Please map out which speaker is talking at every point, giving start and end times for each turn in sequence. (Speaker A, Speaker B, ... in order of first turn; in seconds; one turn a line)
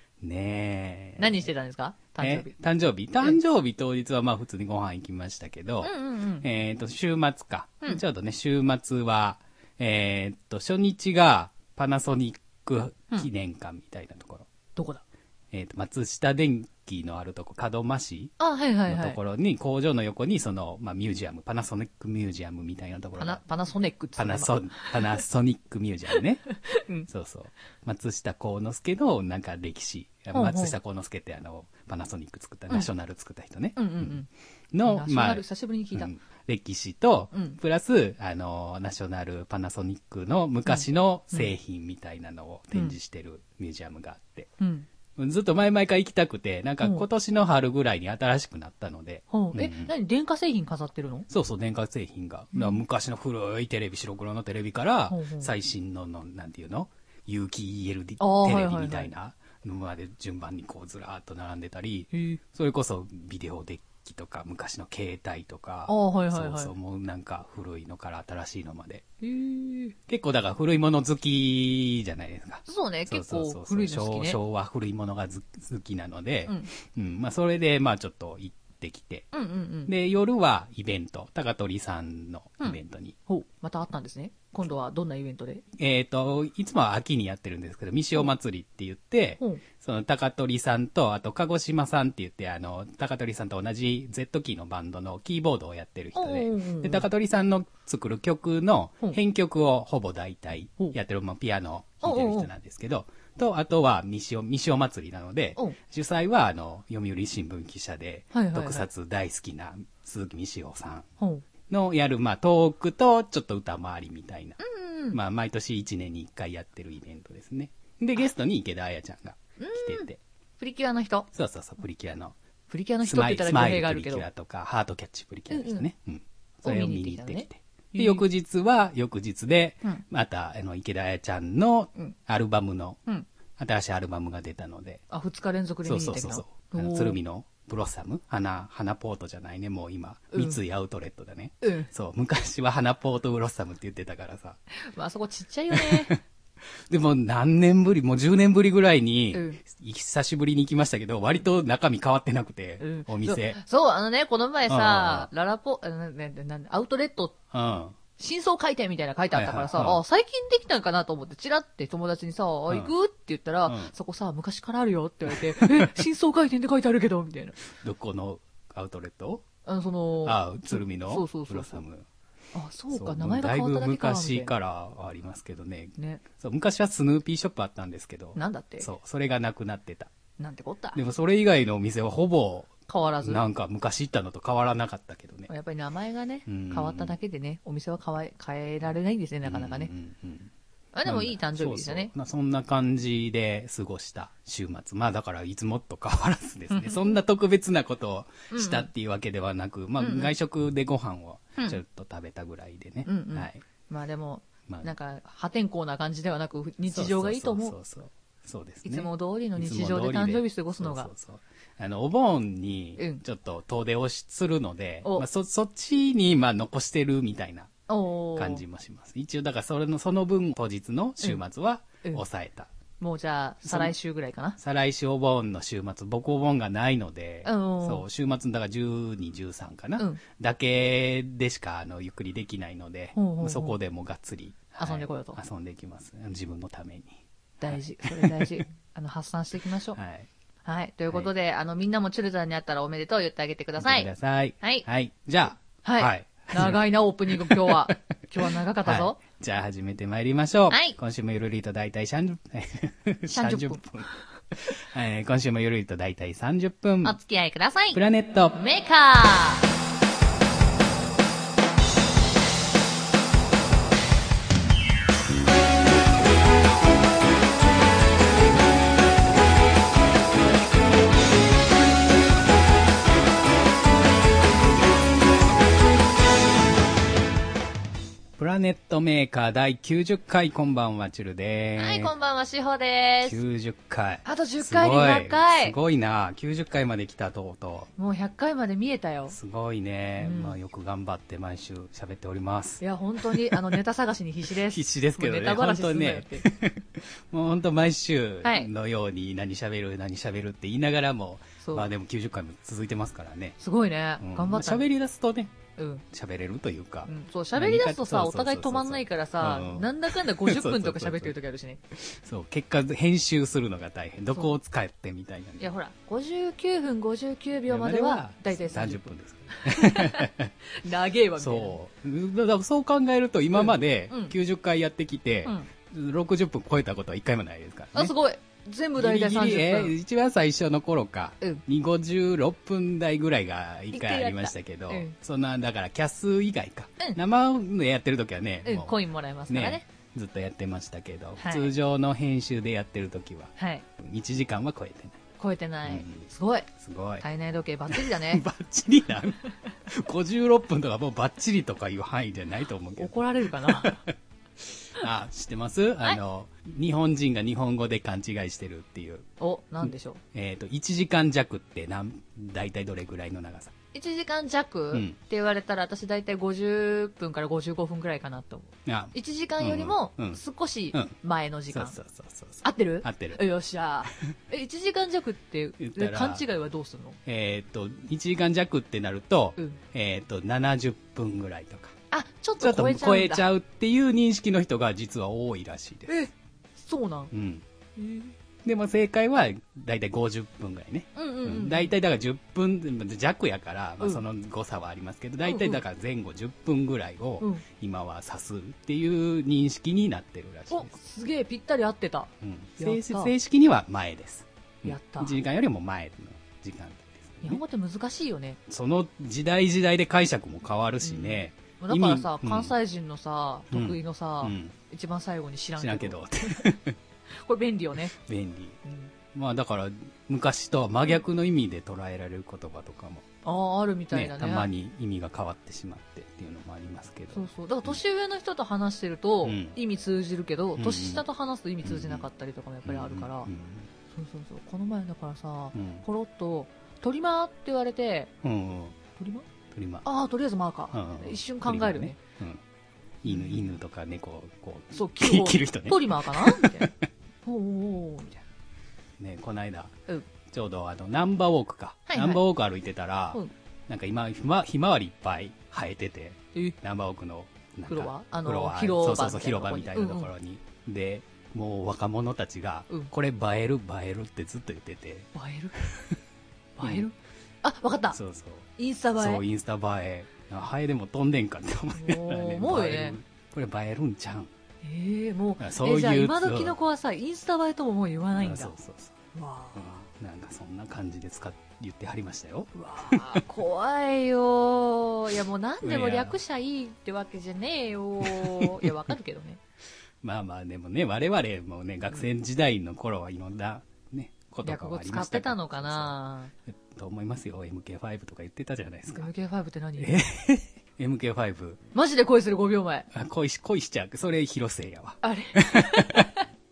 Speaker A: 0.2-1.5
Speaker B: 1.2-2.5
Speaker A: 2.2-14.5
Speaker B: 5.8-6.5
Speaker B: 14.8-15.0
Speaker A: 15.5-18.3
Speaker B: 18.4-19.2
Speaker A: 18.9-23.4
Speaker B: 23.2-25.2
Speaker A: 24.2-26.4
Speaker B: 26.5-27.1
Speaker A: 27.1-34.1
Speaker B: 30.3-30.8
Speaker B: 33.8-34.3
Speaker A: 34.7-44.5
Speaker B: 34.8-36.1
Speaker B: 37.3-37.6
Speaker B: 40.6-41.5
Speaker B: 44.6-44.9
Speaker A: 45.1-49.9
Speaker B: 49.3-51.3
Speaker A: 51.3-69.0
Speaker B: 52.5-52.8
Speaker B: 55.1-55.5
Speaker B: 58.2-59.1
Speaker B: 62.1-62.4
Speaker B: 65.9-66.7
Speaker B: 69.2-69.9
Speaker A: 70.1-79.3
Speaker B: 72.7-74.4
Speaker B: 79.3-79.9
Speaker A: 79.8-83.2
Speaker B: 82.6-85.6
Speaker A: 85.7-111.1
Speaker B: 96.2-97.1
Speaker B: 102.0-102.5
Speaker B: 108.3-108.9
Speaker B: 111.2-111.4
Speaker A: 111.7-114.6
Speaker B: 114.6-115.2
Speaker A: 115.1-120.2
Speaker B: 119.6-120.1
Speaker B: 120.6-121.3
Speaker A: 121.3-122.3
Speaker B: 122.7-124.2
Speaker A: 123.0-133.0
Speaker B: 125.5-125.8
Speaker B: 126.6-128.2
Speaker A: 133.6-135.0
Speaker B: 135.1-137.2
Speaker A: 135.8-144.6
Speaker B: 140.3-140.6
Speaker B: 141.6-141.9
Speaker B: 144.7-146.2
Speaker A: 145.7-146.2
Speaker A: 146.9-153.6
Speaker B: 149.3-149.6
Speaker B: 152.8-157.4
Speaker A: 154.7-155.3
Speaker A: 157.5-157.9
Speaker B: 158.2-167.6
Speaker A: 159.3-160.0
Speaker A: 163.7-163.9
Speaker A: 165.3-166.0
Speaker A: 167.7-169.4
Speaker B: 169.7-171.8
Speaker A: 170.2-172.1
Speaker B: 172.5-174.5
Speaker A: 172.9-180.1
Speaker B: 176.0-176.2
Speaker B: 178.3-178.9
Speaker B: 180.4-181.0
Speaker A: 180.9-185.5
Speaker B: 182.9-183.4
Speaker B: 185.5-189.9
Speaker A: 186.4-187.2
Speaker A: 189.4-190.5
Speaker B: 190.9-192.1
Speaker A: 191.1-203.6
Speaker B: 196.7-197.2
Speaker B: 198.5-198.9
Speaker B: 200.0-200.3
Speaker B: 203.1-207.8
Speaker A: 206.9-217.7
Speaker B: 208.8-211.1
Speaker B: 217.9-218.6
Speaker A: 218.3-222.7
Speaker B: 223.0-224.6
Speaker A: 223.6-223.9
Speaker A: 224.6-238.6
Speaker B: 227.4-228.1
Speaker B: 233.1-233.8
Speaker B: 234.8-235.4
Speaker B: 237.6-240.0
Speaker A: 239.9-240.3
Speaker B: 240.6-244.1
Speaker A: 243.8-257.2
Speaker B: 244.6-244.8
Speaker B: 245.8-249.2
Speaker B: 250.7-251.0
Speaker B: 253.3-253.8
Speaker B: 257.0-258.0
Speaker A: 257.9-258.6
Speaker B: 258.5-259.7
Speaker A: 278.4-282.1
Speaker B: 281.8-283.4
Speaker A: 283.2-287.9
Speaker B: 284.2-285.8
Speaker B: 288.0-289.4
Speaker A: 289.3-293.8
Speaker B: 290.2-290.6
Speaker B: 292.8-296.4
Speaker A: 294.7-303.6
Speaker B: 298.4-298.7
Speaker B: 301.6-301.9
Speaker B: 303.6-304.9
Speaker A: 304.2-305.5
Speaker B: 305.8-306.0
Speaker A: 306.1-311.4
Speaker B: 307.1-311.8
Speaker A: 311.9-315.7
Speaker B: 315.6-321.8
Speaker A: 317.7-320.5
Speaker A: 321.4-328.1
Speaker B: 323.5-324.3
Speaker B: 327.9-329.9
Speaker A: 328.9-339.0
Speaker B: 333.9-335.1
Speaker B: 338.6-339.8
Speaker A: 339.5-345.2
Speaker B: 341.4-341.7
Speaker B: 343.6-343.8
Speaker B: 345.4-348.4
Speaker A: 345.9-347.2
Speaker A: 347.9-359.3
Speaker B: 352.9-354.1
Speaker B: 359.4-360.2
Speaker A: 359.8-363.7
Speaker B: 363.9-371.9
Speaker A: 368.9-370.4
Speaker A: 371.7-373.4
Speaker B: 372.6-377.2
Speaker A: 375.8-376.4
Speaker A: 377.2-381.9
Speaker B: 382.1-383.5
Speaker A: 382.6-386.1
Speaker B: 386.1-387.3
Speaker A: 387.3-387.6
Speaker B: 387.9-388.3
Speaker A: 388.6-400.9
Speaker B: 391.1-391.9
Speaker B: 395.4-395.8
Speaker B: 400.7-403.3
Speaker A: 402.4-407.6
Speaker B: 404.8-405.4
Speaker B: 407.4-408.6
Speaker A: 408.7-412.7
Speaker B: 411.0-416.6
Speaker A: 413.7-414.8
Speaker A: 415.8-417.0
Speaker B: 417.4-418.1
Speaker A: 418.1-418.8
Speaker B: 418.8-419.1
Speaker A: 419.3-423.2
Speaker B: 423.4-424.7
Speaker A: 424.1-428.0
Speaker B: 427.3-433.5
Speaker A: 429.4-429.8
Speaker A: 430.8-431.2
Speaker A: 431.8-432.2
Speaker A: 432.8-433.9
Speaker B: 434.1-438.3
Speaker A: 435.7-436.0
Speaker A: 438.4-439.0
Speaker B: 439.1-439.4
Speaker A: 439.7-440.0
Speaker B: 440.0-442.2
Speaker A: 440.9-442.6
Speaker A: 443.2-446.9
Speaker B: 443.3-443.8
Speaker B: 444.9-446.9
Speaker B: 447.4-448.4
Speaker A: 449.2-449.9
Speaker A: 450.5-466.2
Speaker B: 452.1-452.4
Speaker B: 457.9-460.3
Speaker B: 465.3-465.8
Speaker B: 466.8-468.2
Speaker A: 466.8-467.1
Speaker A: 468.1-474.5
Speaker B: 468.8-469.4
Speaker B: 471.9-473.2
Speaker B: 474.8-478.7
Speaker A: 475.6-476.8
Speaker A: 478.3-479.1
Speaker B: 479.3-479.9
Speaker A: 479.7-483.4
Speaker B: 482.7-489.6
Speaker A: 485.8-486.4
Speaker A: 488.2-489.0
Speaker A: 490.2-496.1
Speaker B: 494.6-496.5
Speaker A: 496.7-499.3
Speaker B: 499.1-500.2
Speaker A: 500.0-501.8
Speaker B: 501.9-503.1
Speaker A: 503.1-506.3
Speaker B: 505.2-506.4